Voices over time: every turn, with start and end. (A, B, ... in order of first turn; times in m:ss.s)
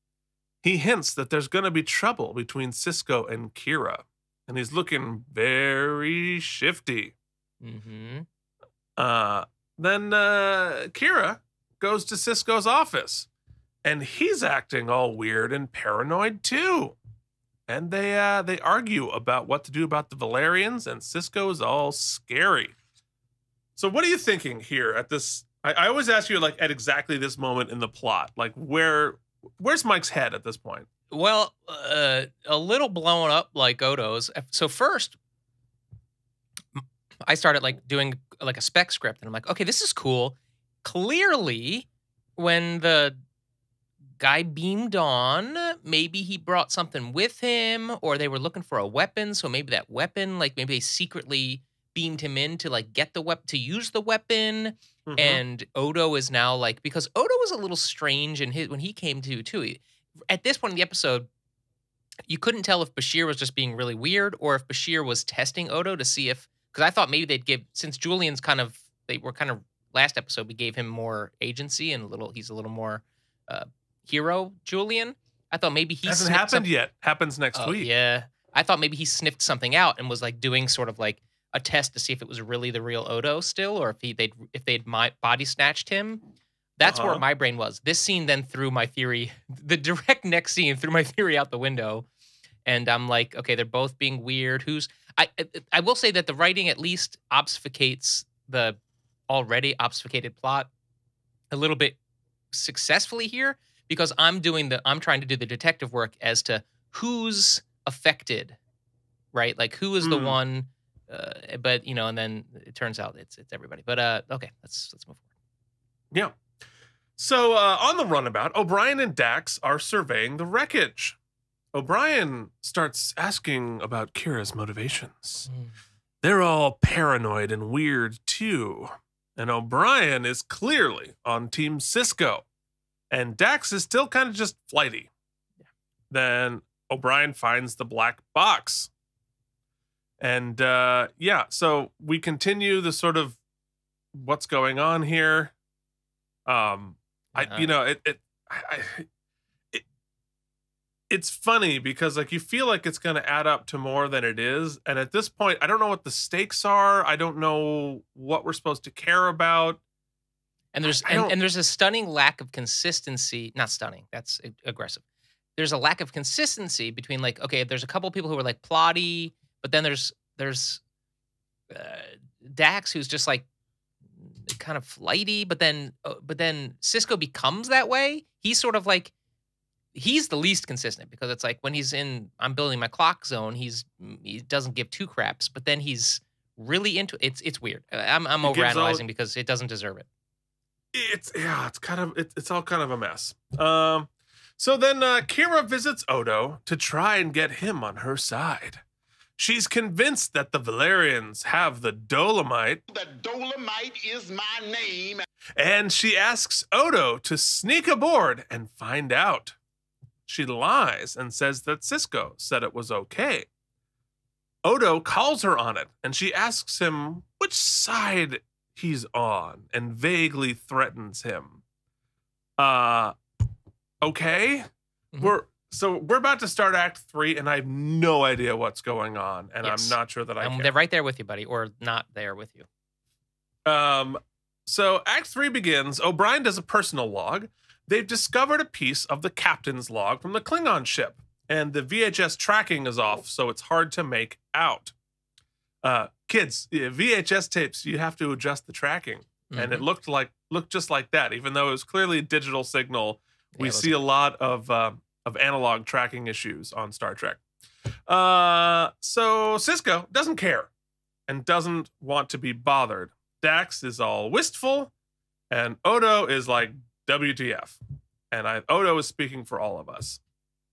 0:00.6-0:07.1 A
0:07.6-0:08.3 B
0:09.0-0:13.3 A
0:13.8-0:17.0 A
0:17.7-0:22.7 A
0:23.8-0:30.9 A
0:31.1-0:35.2 B
0:36.8-0:41.9 B
0:42.4-0:43.2 B
0:44.2-1:01.3 B
0:55.1-0:55.4 A
1:02.3-1:16.7 B
1:16.1-1:17.9 A
1:17.6-1:26.2 B
1:26.8-1:32.1 B
1:26.8-1:27.2 A
1:32.7-1:38.8 B
1:39.3-1:40.7 B
1:41.5-1:42.0 B
1:42.5-1:48.6 B
1:49.3-1:55.2 B
1:50.0-1:50.4 A
1:56.1-1:56.4 A
1:57.2-2:01.2 A
2:01.7-2:05.5 A
2:06.2-2:12.4 A
2:13.1-2:15.1 A
2:16.1-2:18.9 A
2:20.2-2:23.4 A
2:24.1-2:25.5 A
2:26.5-2:29.1 A
2:27.4-2:27.7 B
2:31.1-2:39.8 A
2:40.7-2:45.0 B
2:40.9-2:41.4 A
2:45.6-2:50.8 B
2:51.7-2:53.4 B
2:54.5-2:59.1 B
2:59.9-3:10.1 B
3:08.4-3:09.0 A
3:10.9-3:18.8 A
3:19.4-3:22.8 A
3:22.9-3:25.2 C
3:25.6-3:29.6 A
3:30.3-3:33.5 A
3:34.6-3:41.6 A
3:42.6-3:43.2 A
3:44.0-3:44.7 A
3:45.2-3:50.7 A
3:49.6-3:52.7 B
3:53.7-4:04.9 A
4:05.8-4:17.4 A
4:09.5-4:09.8 B
4:13.6-4:14.0 B
4:18.1-4:20.7 A
4:21.3-4:24.9 A
4:25.5-4:27.8 A
4:28.3-4:30.2 A